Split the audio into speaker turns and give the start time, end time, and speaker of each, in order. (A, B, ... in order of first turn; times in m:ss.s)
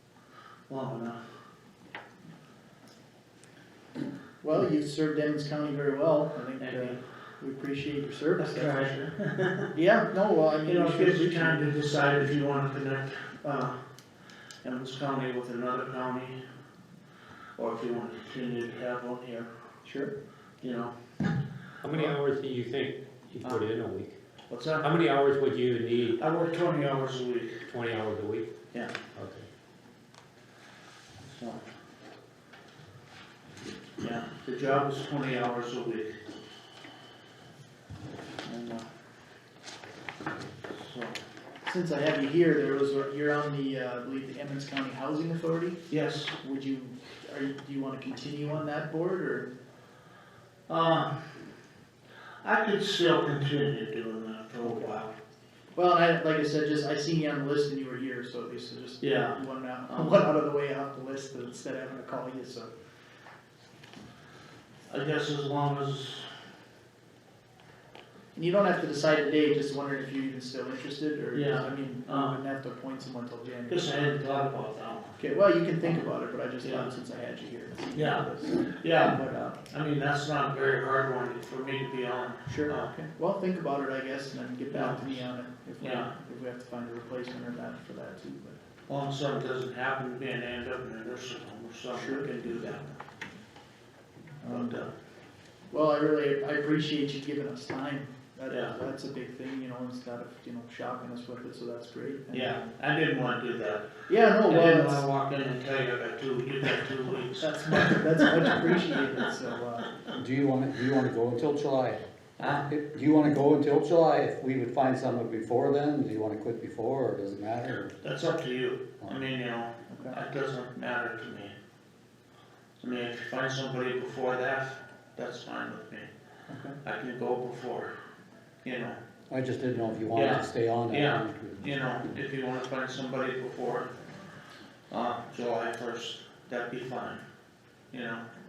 0:00.7-0:01.2 A
0:04.4-0:09.0 B
0:06.6-0:07.0 A
0:08.4-0:09.7 A
0:09.7-0:11.7 B
0:10.6-0:13.8 A
0:14.6-0:16.4 A
0:17.6-0:19.5 A
0:19.8-0:20.1 B
0:20.6-0:20.9 A
0:21.8-0:24.2 C
0:24.5-0:24.9 A
0:24.8-0:26.2 C
0:26.2-0:27.6 A
0:27.6-0:28.5 C
0:29.1-0:29.5 C
0:31.3-0:31.6 A
0:34.0-0:36.2 A
0:38.4-0:38.9 A
0:40.7-0:41.2 A
0:41.6-0:49.5 B
0:45.9-0:46.3 A
0:50.7-0:51.3 A
0:52.4-0:55.1 A
0:54.6-0:54.9 B
0:55.7-1:02.7 B
0:59.0-1:00.2 A
1:04.9-1:06.3 A
1:08.3-1:14.0 B
1:11.3-1:12.4 A
1:13.7-1:15.2 A
1:15.2-1:19.6 B
1:15.8-1:16.0 A
1:16.6-1:16.9 A
1:17.9-1:23.0 A
1:22.4-1:28.6 B
1:24.7-1:25.2 A
1:25.8-1:26.1 A
1:28.9-1:33.0 A
1:31.9-1:32.3 B
1:34.4-1:34.8 B
1:34.4-1:34.9 A
1:35.7-1:42.7 B
1:38.5-1:38.7 A
1:42.3-1:49.0 A
1:44.1-1:45.0 B
1:47.4-1:50.0 B
1:50.1-1:58.0 D
1:52.4-1:52.6 A
1:58.0-2:01.5 A
1:59.9-2:00.2 B
2:02.8-2:06.1 A
2:06.5-2:06.8 B
2:06.8-2:07.9 A
2:08.6-2:09.0 A
2:09.3-2:11.6 D
2:10.1-2:13.9 A
2:14.9-2:17.2 A
2:17.9-2:18.3 A